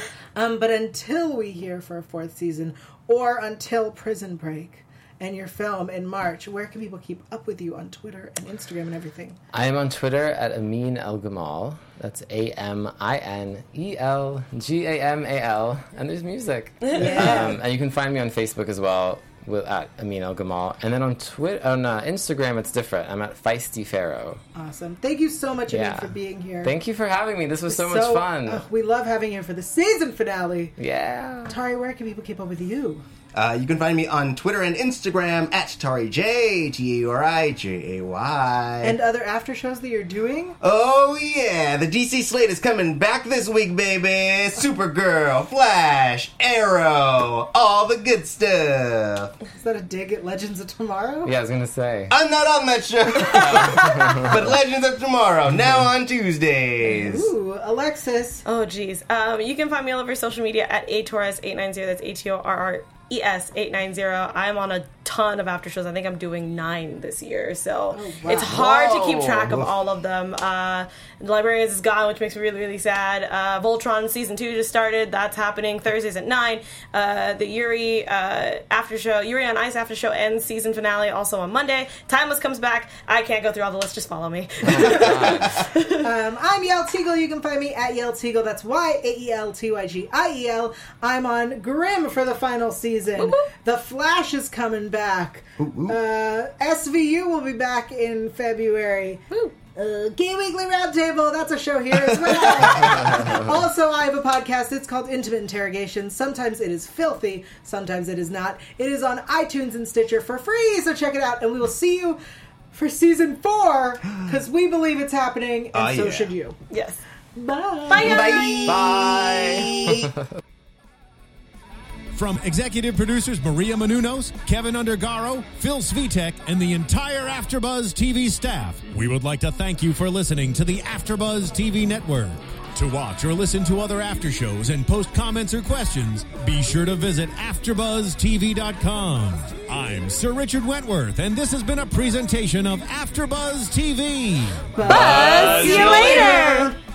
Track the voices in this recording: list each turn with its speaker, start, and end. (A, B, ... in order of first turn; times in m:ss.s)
0:00.3-0:09.4 A
0:09.5-0:24.4 B
0:16.8-0:17.4 C
0:16.9-0:17.6 A
0:24.6-0:26.7 A
0:25.7-0:28.6 B
0:27.7-0:30.7 A
0:30.8-0:31.6 B
0:31.4-0:33.0 A
0:33.3-0:39.0 D
0:38.8-0:40.6 A
0:40.6-0:49.3 D
0:49.5-0:51.3 A
0:51.2-0:52.2 B
0:52.1-0:57.3 D
0:53.3-0:54.4 B
0:56.9-0:58.4 A
0:58.4-1:26.0 C
1:07.9-1:08.6 A
1:08.3-1:09.6 B
1:24.6-1:25.6 B
1:26.0-1:52.2 A
1:33.2-1:33.5 C
1:35.6-1:36.0 D
1:52.7-1:56.6 A
1:55.7-1:56.3 D
1:56.7-1:57.0 C
1:57.3-1:58.4 A
1:57.9-1:58.7 C
1:58.0-2:00.1 D
1:58.0-2:00.0 B
2:02.1-2:26.2 E
2:24.7-2:26.7 A
2:24.8-2:26.7 C
2:24.9-2:26.3 B
2:25.4-2:26.6 D